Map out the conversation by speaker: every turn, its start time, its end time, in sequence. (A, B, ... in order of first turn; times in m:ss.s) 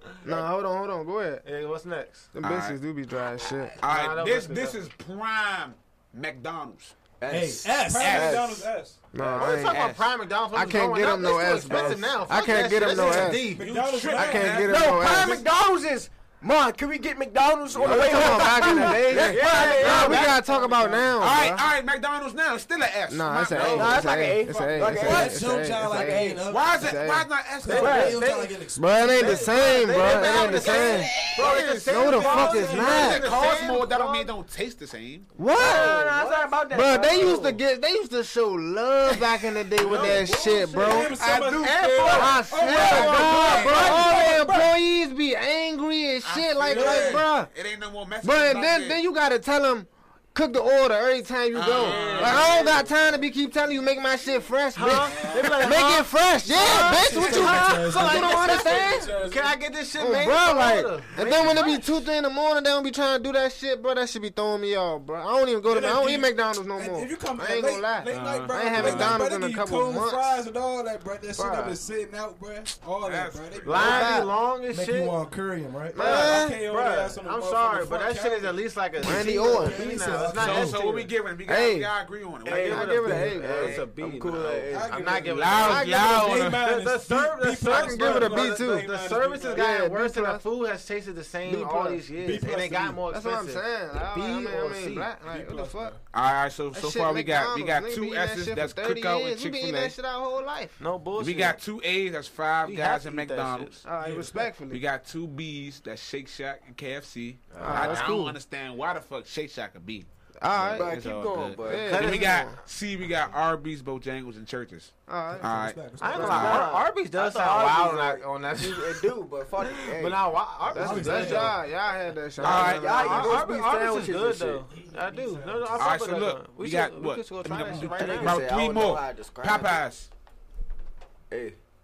0:00.2-0:01.4 A
0:01.4-0:02.3 B
0:02.3-0:03.8 A
0:02.4-0:02.8 C
0:03.8-0:07.0 C
0:03.8-0:04.8 B
0:07.2-0:08.7 D
0:07.3-0:08.4 E
0:07.8-0:09.0 F
0:08.0-0:08.4 C
0:09.1-0:09.9 A
0:09.2-0:13.6 B
0:09.6-0:10.0 C
0:10.5-0:13.6 A
0:13.0-0:14.7 F
0:13.6-0:14.8 C
0:14.2-0:15.4 A
0:14.6-0:20.5 D
0:17.7-0:20.4 C
0:17.8-0:21.6 A
0:18.6-0:21.0 B
0:21.2-0:24.1 C
0:23.1-0:27.3 A
0:23.5-0:24.0 B
0:23.7-0:26.2 D
0:24.8-0:27.0 E
0:26.5-0:28.2 C
0:27.6-0:30.1 E
0:27.6-0:28.6 B
0:27.7-0:28.2 D
0:28.8-0:31.2 A
0:29.2-0:34.3 B
0:29.9-0:31.9 D
0:30.3-0:35.3 C
0:31.8-0:33.3 A
0:32.0-0:33.3 F
0:33.2-0:33.7 D
0:35.4-0:36.1 A
0:35.5-0:37.4 B
0:35.5-0:37.6 D
0:36.7-0:41.2 A
0:39.8-0:44.8 F
0:41.2-0:44.1 C
0:41.6-0:44.2 B
0:42.1-0:47.5 A
0:46.2-0:49.0 C
0:46.7-0:47.3 F
0:48.2-0:59.2 A
0:51.5-0:52.8 C
0:51.7-0:52.8 B
0:51.9-0:52.5 F
0:54.7-1:02.0 B
0:54.8-0:55.8 F
0:56.6-0:58.4 E
0:56.6-0:59.6 F
1:00.0-1:10.4 A
1:05.6-1:14.3 F
1:08.1-1:09.2 C
1:11.4-1:11.8 A
1:13.0-1:14.1 C
1:13.6-1:15.2 B
1:13.8-1:14.3 A
1:14.7-1:16.3 E
1:15.9-1:16.6 A
1:16.0-1:18.6 F
1:16.0-1:21.1 B
1:19.0-1:20.0 A
1:19.0-1:20.8 E
1:20.3-1:24.6 C
1:21.5-1:21.9 A
1:22.4-1:25.1 D
1:22.5-1:23.8 A
1:22.6-1:35.1 B
1:24.7-1:29.7 F
1:25.3-1:26.6 C
1:25.6-1:26.2 A
1:27.7-1:28.9 A
1:29.5-1:30.4 A
1:31.4-1:32.1 A
1:32.2-1:33.0 F
1:33.1-1:36.0 A
1:35.2-1:36.0 F
1:36.1-1:40.0 C
1:36.7-1:40.8 A
1:40.8-1:41.6 B
1:41.2-1:43.8 C
1:42.6-1:43.7 B
1:43.8-1:44.8 A
1:44.0-1:44.5 E
1:44.7-1:56.8 C
1:47.5-1:48.1 D
1:47.6-1:48.4 A
1:50.4-1:51.0 A
1:50.7-1:52.0 D
1:51.6-1:52.6 A
1:51.7-1:52.5 B
1:55.1-1:55.5 A
1:55.4-1:56.6 E
1:56.0-1:59.1 B
1:56.1-2:00.3 D
1:59.8-2:01.6 B
2:00.7-2:04.1 A
2:00.7-2:01.6 E
2:02.4-2:04.6 D
2:02.4-2:03.1 C
2:02.7-2:08.4 B
2:04.6-2:06.0 E
2:05.8-2:10.1 C
2:07.8-2:09.8 D
2:11.3-2:11.6 D